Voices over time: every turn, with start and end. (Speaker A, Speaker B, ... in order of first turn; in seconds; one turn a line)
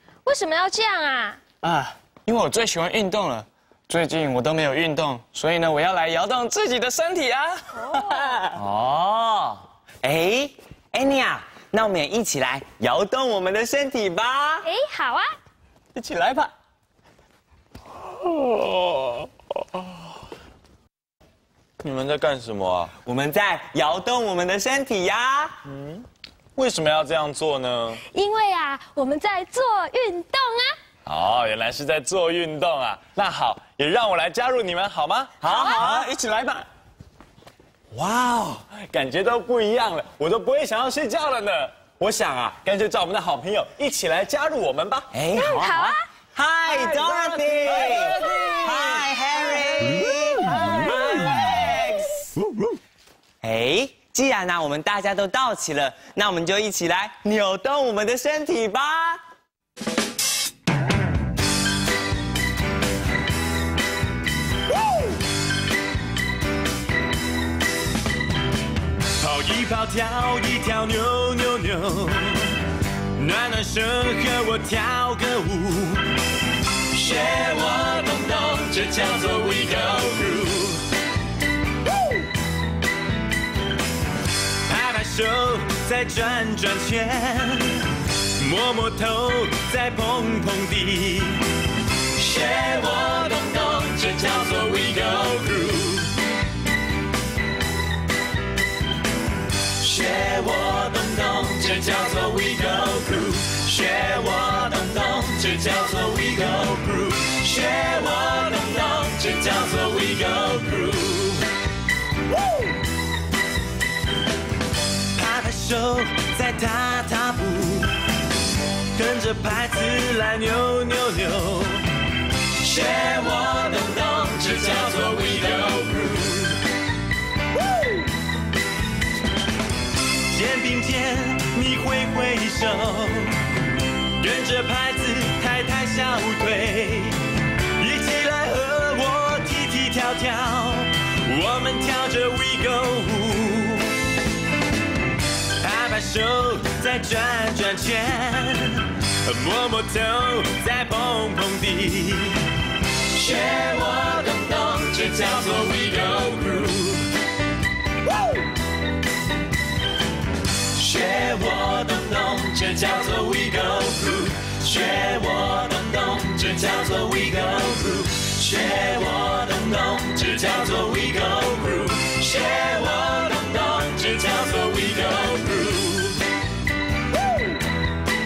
Speaker A: 0.2-1.4
Speaker B: 1.6-8.6
Speaker C: 8.6-14.6
Speaker A: 14.6-15.3
Speaker B: 15.9-16.5
Speaker D: 21.8-22.9
Speaker C: 23.0-25.6
Speaker D: 25.7-26.0
Speaker D: 26.6-28.0
Speaker A: 28.1-30.8
Speaker D: 31.1-36.0
Speaker C: 35.4-35.8
Speaker A: 35.4-35.9
Speaker E: 35.6-36.1
Speaker B: 35.8-36.7
Speaker C: 37.9-38.6
Speaker D: 38.7-45.1
Speaker C: 45.2-52.0
Speaker E: 45.2-45.9
Speaker A: 45.3-46.0
Speaker D: 46.7-49.0
Speaker E: 46.9-48.1
Speaker E: 48.6-51.7
Speaker C: 53.4-59.2
Speaker E: 69.2-72.6
Speaker E: 73.2-76.1
Speaker E: 76.9-80.8
Speaker E: 84.7-91.5
Speaker E: 92.2-96.1
Speaker E: 99.8-111.5
Speaker E: 115.2-118.0
Speaker E: 118.9-121.9
Speaker E: 122.6-126.6
Speaker E: 130.3-133.4
Speaker E: 134.2-137.2
Speaker E: 137.8-143.9
Speaker E: 145.6-152.4
Speaker E: 153.1-157.1
Speaker E: 160.7-176.2